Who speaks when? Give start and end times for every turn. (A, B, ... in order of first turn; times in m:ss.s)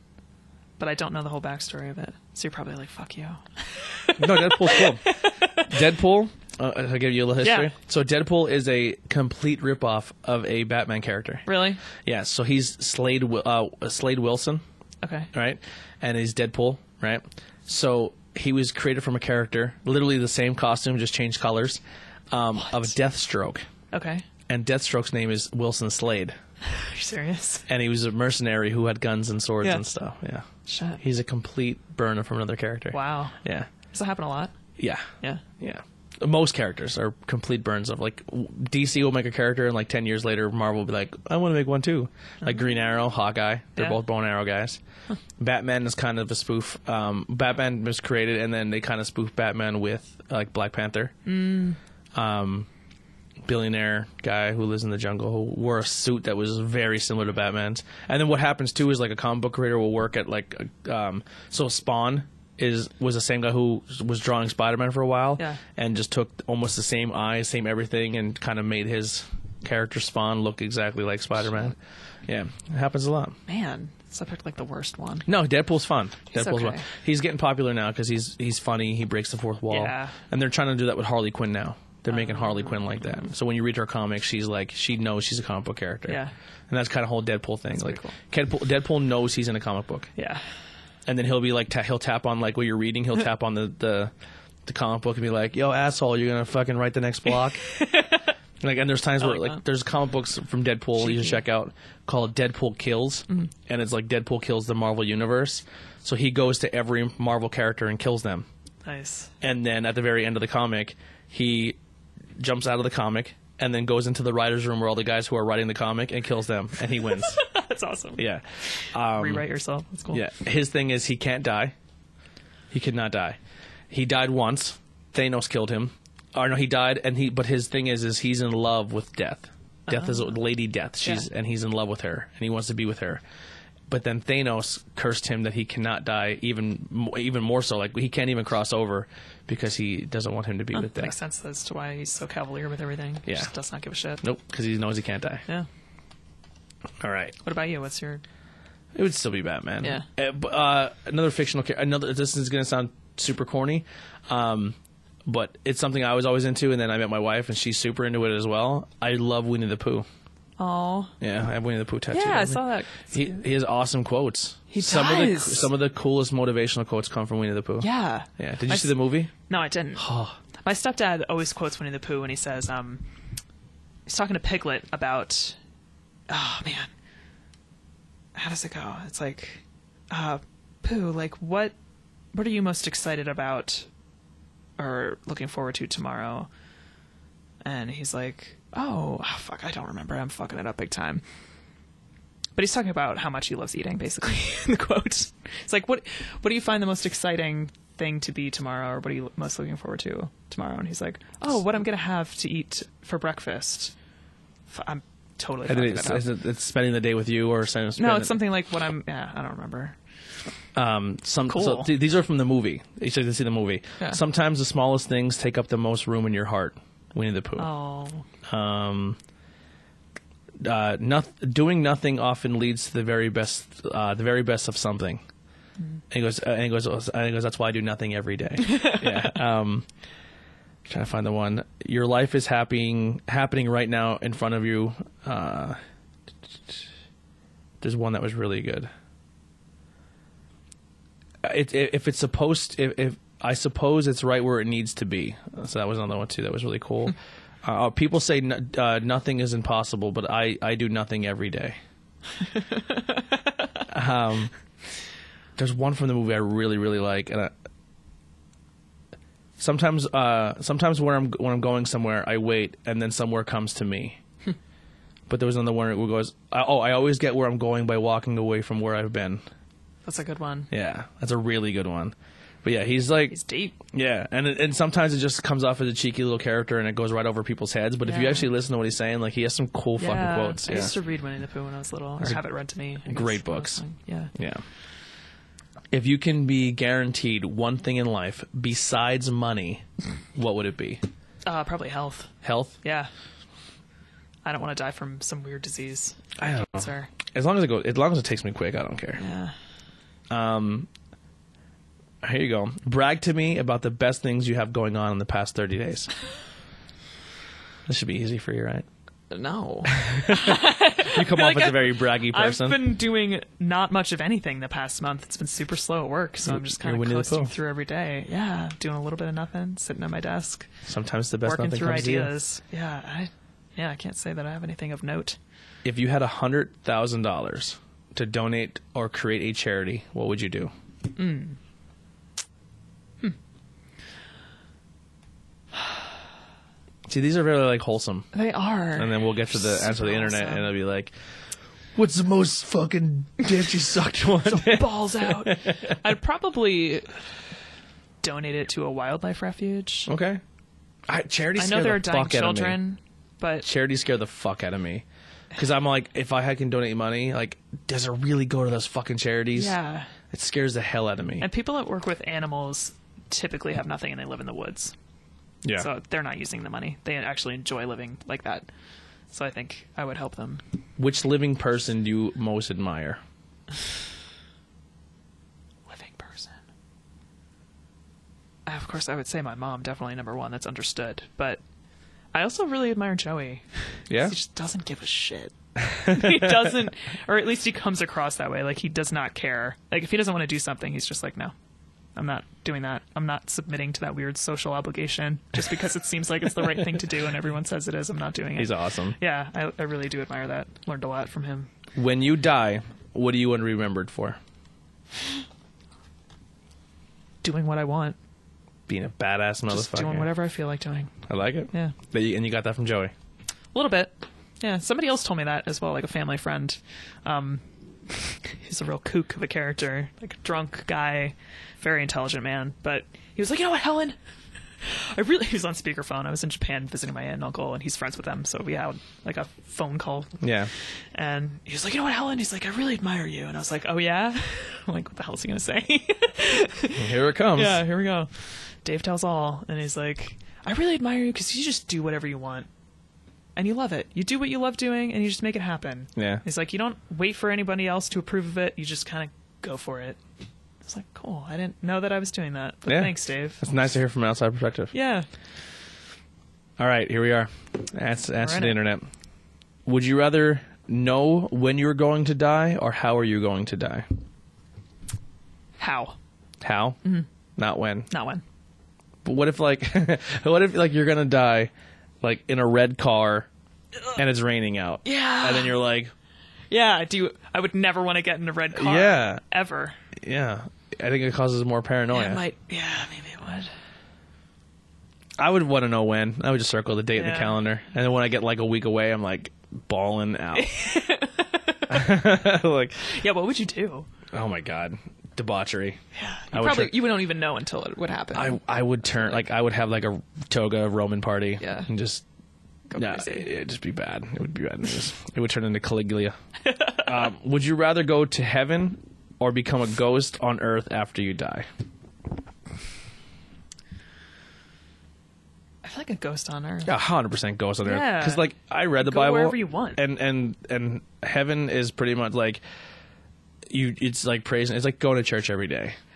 0:00.8-0:05.7 A
0:04.2-0:05.0 B
0:05.6-0:11.5 B
0:07.4-0:07.7 A
0:11.4-0:11.8 A
0:12.0-0:14.6 B
0:15.0-0:15.3 A
0:15.3-0:23.6 B
0:22.6-0:22.9 A
0:23.9-0:24.2 A
0:24.5-0:26.4 B
0:26.6-0:27.6 A
0:27.7-0:30.4 B
0:30.6-0:31.0 A
0:31.0-0:33.7 B
0:32.9-0:33.4 A
0:33.9-0:34.5 A
0:34.8-0:35.1 B
0:35.6-0:44.8 B
0:45.4-0:51.1 B
0:51.2-0:51.8 A
0:52.1-0:52.7 B
0:53.4-1:11.7 B
1:12.2-1:13.4 B
1:13.5-1:15.3 A
1:15.2-1:30.1 B
1:16.3-1:16.8 A
1:19.7-1:20.1 A
1:22.1-1:23.0 A
1:26.1-1:26.3 A
1:27.8-1:28.1 A
1:30.2-1:30.4 A
1:31.0-1:34.1 B
1:34.6-1:37.6 B
1:37.6-1:38.3 A
1:38.6-1:48.4 B
1:39.2-1:39.6 A
1:41.0-1:41.4 A
1:48.8-1:49.3 A
1:49.4-1:51.8 B
1:52.4-1:57.4 B
1:57.1-1:58.2 A
1:58.2-1:59.4 B
1:58.8-2:00.2 A
2:00.1-2:01.7 B
2:02.7-2:03.4 B
2:03.9-2:13.2 B
2:09.9-2:10.3 A
2:13.9-2:21.1 B
2:20.7-2:24.2 A
2:24.2-2:25.4 B
2:27.0-2:27.4 B
2:27.4-2:28.2 A
2:28.9-2:40.0 B
2:40.6-2:41.1 A
2:41.2-2:49.3 B
2:42.1-2:43.4 A
2:44.7-2:45.7 A
2:47.8-2:50.1 A
2:50.0-2:50.4 B
2:50.6-2:53.0 A
2:54.1-2:55.6 A
2:56.3-2:56.9 A
2:58.3-3:01.7 A
3:02.3-3:03.9 A
3:04.8-3:06.5 A
3:07.6-3:11.2 A
3:12.6-3:23.9 A
3:24.7-3:26.3 A
3:25.7-3:28.4 B
3:28.0-3:30.0 A
3:30.7-3:37.7 B
3:31.5-3:31.9 A
3:37.6-3:38.2 A
3:38.5-3:39.2 B
3:40.6-3:45.2 B
3:46.1-3:49.8 B
3:48.6-3:49.3 A
3:50.8-3:55.8 B
3:57.8-3:58.9 B
4:01.4-4:11.8 B
4:12.7-4:13.0 A
4:13.9-4:14.5 B
4:15.6-4:17.5 B
4:19.6-4:24.2 B
4:25.3-4:29.4 B
4:30.0-4:30.7 A
4:30.7-4:33.3 B
4:33.3-4:33.8 A
4:33.9-4:40.9 B
4:38.0-4:38.5 A
4:40.0-4:44.3 A
4:43.0-4:43.8 B
4:44.3-4:44.6 B
4:45.9-4:49.8 B
4:50.3-4:51.0 B
4:51.4-4:53.1 A
4:52.4-4:52.7 B
4:54.4-4:57.1 A
4:56.4-4:59.2 B
4:59.2-4:59.5 A
5:00.3-5:00.9 B
5:02.2-5:06.1 B
5:07.9-5:08.8 B
5:09.3-5:20.7 A
5:09.8-5:12.9 B
5:16.4-5:17.5 B
5:20.8-5:22.3 B
5:21.4-5:25.4 A
5:25.8-5:30.7 B
5:31.1-5:31.6 A
5:37.1-5:38.3 B
5:38.3-5:40.7 A
5:39.0-5:41.1 B
5:41.9-5:46.0 B
5:44.4-5:47.1 A
5:48.2-5:50.1 A
5:50.1-5:50.4 B
5:51.1-5:52.8 B
5:51.6-5:53.7 A
5:53.6-5:59.7 B
5:59.5-6:00.1 A
6:00.3-6:01.4 B
6:01.4-6:04.9 A
6:05.7-6:08.7 A
6:09.3-6:10.6 A
6:11.0-6:13.2 B
6:15.9-6:16.6 A
6:18.6-6:21.6 A
6:22.3-6:31.5 A
6:24.1-6:24.3 B
6:25.8-6:26.7 B
6:32.2-6:41.7 A
6:38.6-6:39.2 B
6:41.9-6:44.4 B
6:47.4-6:48.2 A
6:48.9-6:50.3 B
6:49.7-6:51.1 A
6:51.3-6:53.1 B
6:53.7-7:04.2 A
7:04.8-7:10.3 A
7:10.4-7:10.7 B
7:11.1-7:18.3 A
7:17.0-7:17.8 B
7:18.8-7:22.7 A
7:23.6-7:30.2 A
7:26.2-7:26.4 B
7:30.8-7:33.6 A
7:32.8-7:34.9 B
7:34.9-7:35.3 A
7:36.8-7:39.0 B
7:38.4-7:38.8 A
7:39.8-7:44.0 B
7:45.8-7:46.2 A
7:46.6-7:47.0 B
7:47.6-7:48.1 B
7:48.1-7:48.4 A
7:49.2-7:51.7 B
7:52.2-7:53.5 B
7:54.2-7:56.1 B
7:55.0-7:55.8 A
7:56.7-8:00.0 A
7:58.7-7:59.4 B
8:00.2-8:02.4 B
8:02.1-8:03.7 A
8:05.4-8:10.7 B
8:07.1-8:07.6 A
8:10.5-8:12.2 A
8:11.9-8:13.0 B
8:13.0-8:14.1 A
8:14.3-8:16.0 B
8:16.1-8:18.6 A
8:16.5-8:17.0 B
8:18.3-8:22.2 B
8:21.6-8:21.9 A
8:22.9-8:23.5 A
8:23.0-8:26.4 B
8:26.7-8:27.1 A
8:27.0-8:31.7 B
8:35.8-8:36.9 A
8:36.8-8:42.6 B
8:37.8-8:38.5 A
8:39.0-8:40.0 A
8:43.7-8:46.0 B